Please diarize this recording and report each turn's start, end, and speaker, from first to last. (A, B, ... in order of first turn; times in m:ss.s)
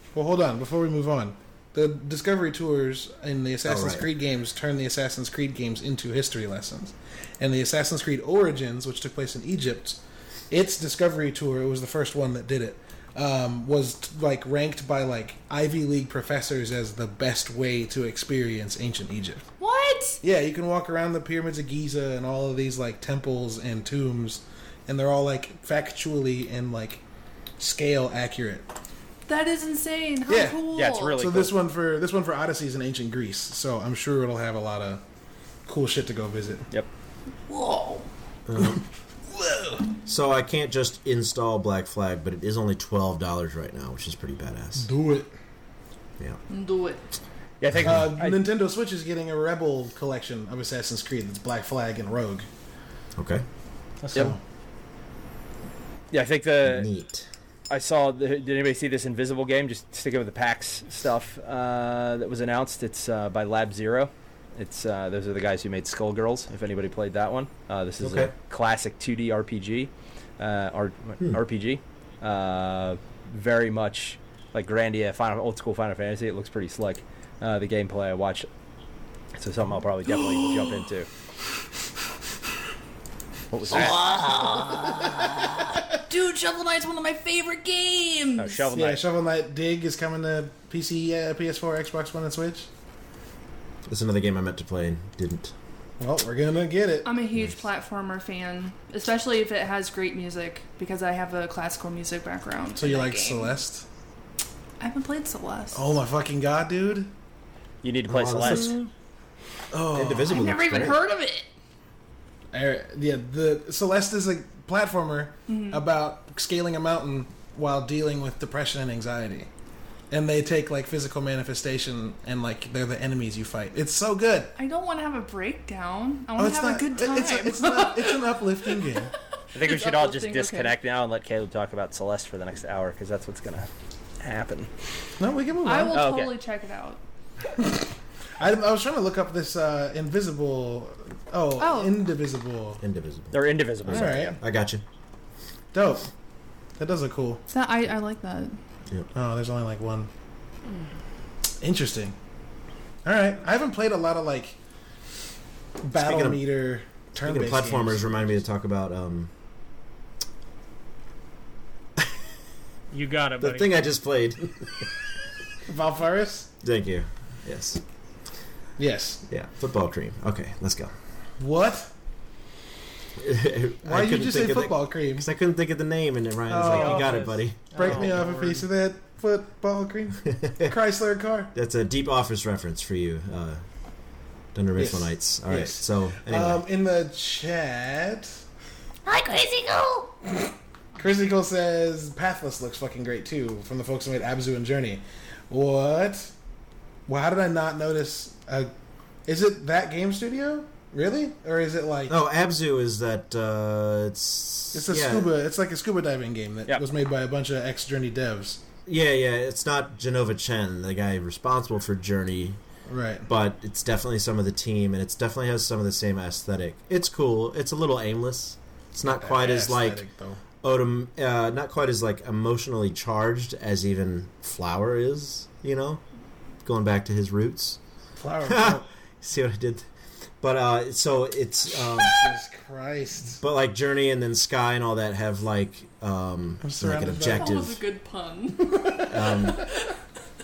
0:00.1-0:19.4 A
0:03.6-0:04.1 B
0:19.6-0:20.2 C
0:20.2-0:27.0 A
0:27.6-0:28.7 A
0:29.3-0:31.2 C
0:30.3-0:35.0 A
0:30.7-0:31.6 D
0:35.7-0:36.7 A
0:37.5-0:38.1 C
0:38.5-0:38.8 B
0:38.6-0:39.8 A
0:40.0-0:44.9 B
0:44.8-0:45.3 A
0:46.5-0:47.0 C
0:47.6-0:48.4 D
0:47.8-0:48.0 B
0:47.8-0:52.5 A
0:53.2-0:53.4 B
0:54.0-0:54.4 A
0:56.1-0:56.9 D
0:56.6-0:57.3 B
0:57.7-1:18.5 D
1:08.0-1:08.3 B
1:19.4-1:21.1 D
1:23.5-1:25.4 D
1:23.7-1:28.7 C
1:28.4-1:29.0 D
1:28.7-1:32.7 A
1:33.9-1:35.5 B
1:36.0-1:37.1 A
1:37.0-1:43.6 C
1:42.8-1:43.8 A
1:44.8-1:45.8 C
1:45.7-1:47.1 A
1:47.8-1:48.8 D
1:48.1-1:48.8 B
1:49.7-1:50.5 A
1:49.9-1:51.0 B
1:50.3-1:51.5 C
1:52.5-1:59.5 A
1:55.5-1:55.8 C
2:00.1-2:04.5 A
2:04.6-2:08.9 C
2:06.4-2:09.1 A
2:09.5-2:13.7 D
2:09.5-2:10.7 C
2:14.2-2:14.7 D
2:15.2-2:16.0 A
2:15.6-2:17.0 C
2:15.9-2:16.3 D
2:17.6-2:17.8 A
2:18.4-2:22.8 A
2:21.6-2:21.9 C
2:22.8-2:24.8 B
2:23.3-2:24.4 D
2:23.9-2:24.4 A
2:25.7-2:26.1 A
2:26.8-2:27.4 A
2:27.5-2:28.6 C
2:29.1-2:30.1 A
2:31.6-2:32.1 A
2:33.0-2:34.6 A
2:35.8-2:38.4 A
2:35.9-2:36.4 B
2:37.2-2:39.3 B
2:42.9-2:43.7 E
2:43.4-2:44.9 B
2:45.7-2:46.5 A
2:46.6-2:47.8 B
2:48.8-2:49.2 A
2:49.3-2:50.9 B
2:51.4-2:51.9 A
2:53.2-2:58.2 B
2:53.8-2:55.3 A
2:56.5-3:01.5 A
2:56.6-2:58.7 E
3:00.3-3:00.7 B
3:01.5-3:03.6 B
3:04.5-3:06.6 B
3:04.8-3:08.4 A
3:09.0-3:10.1 C
3:11.0-3:16.3 A
3:17.1-3:18.7 A
3:19.2-3:22.1 A
3:22.1-3:25.3 B
3:24.7-3:28.6 A
3:28.8-3:32.6 B
3:32.9-3:33.3 A
3:33.2-3:40.0 B
3:39.1-3:40.4 A
3:40.6-3:46.0 B
3:46.6-3:47.8 B
3:48.2-3:48.8 A
3:48.4-3:49.9 B
3:50.4-3:52.2 B
3:51.9-3:53.4 A
3:53.4-3:57.8 B
3:56.6-3:57.6 A
3:57.3-3:59.7 C
3:58.8-3:59.1 A
3:59.0-3:59.6 B